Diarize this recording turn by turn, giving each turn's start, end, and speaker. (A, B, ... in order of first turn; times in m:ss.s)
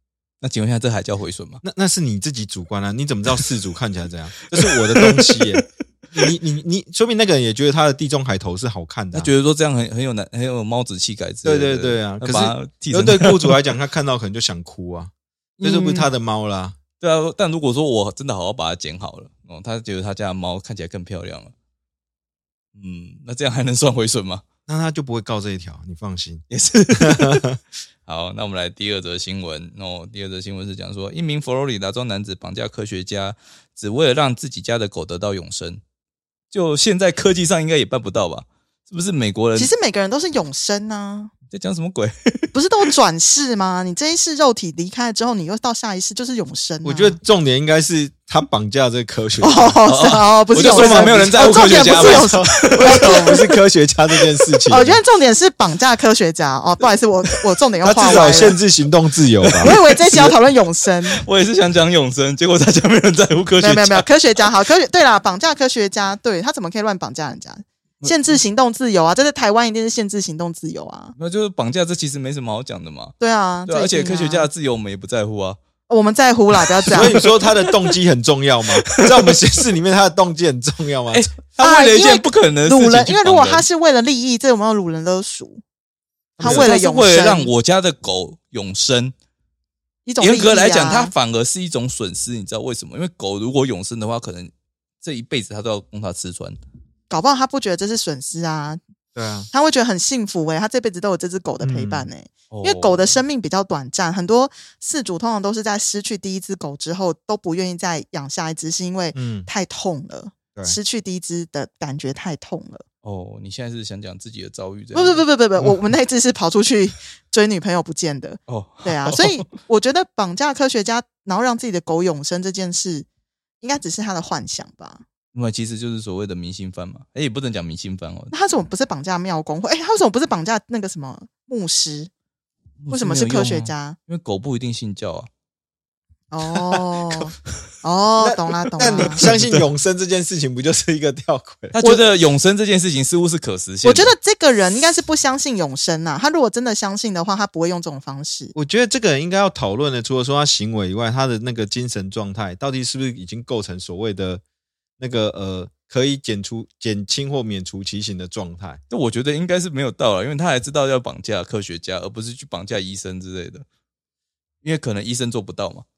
0:00.4-0:01.6 A
0:01.6-0:09.3 B
0:04.9-0:05.6 A
0:09.1-0:13.6 A
0:11.4-0:15.1 B
0:15.6-0:16.1 A
0:15.6-0:16.8 B
0:17.0-0:21.5 A
0:22.8-0:24.4 A
0:24.7-0:27.6 B
0:26.5-0:27.4 A
0:28.1-0:35.8 A
0:36.5-0:39.7 A
0:39.6-0:41.3 C
0:41.5-0:42.5 A
0:42.5-0:47.2 C
0:46.8-0:49.8 B
0:49.4-0:53.4 C
0:49.8-0:53.5 A
0:50.6-0:55.0 B
0:54.7-0:58.6 C
0:57.8-0:59.7 B
0:59.4-1:00.4 A
0:59.6-1:01.2 C
1:01.1-1:04.1 A
1:03.6-1:11.1 C
1:11.2-1:15.6 A
1:13.2-1:14.5 C
1:15.9-1:17.3 C
1:16.8-1:17.7 A
1:16.9-1:21.3 B
1:18.8-1:19.3 A
1:21.1-1:23.6 A
1:21.6-1:25.6 C
1:26.4-1:27.5 C
1:26.4-1:29.1 A
1:26.4-1:26.7 B
1:30.0-1:31.1 C
1:30.2-1:36.6 A
1:37.1-1:38.8 C
1:39.1-1:39.5 B
1:39.5-1:52.8 C
1:41.6-1:42.1 B
1:42.5-1:43.2 A
1:49.1-1:49.5 B
1:53.0-1:55.2 A
1:54.9-2:03.0 C
1:58.5-1:59.4 A
2:03.6-2:05.0 C
2:05.3-2:08.3 A
2:08.3-2:12.1 C
2:12.8-2:15.3 A
2:12.9-2:14.0 C
2:16.3-2:19.2 C
2:18.2-2:21.8 B
2:18.8-2:19.6 A
2:21.7-2:24.1 A
2:21.8-2:22.1 C
2:23.8-2:28.5 C
2:28.5-2:34.4 B
2:35.0-2:38.8 B
2:38.9-2:43.6 A
2:44.6-2:45.8 A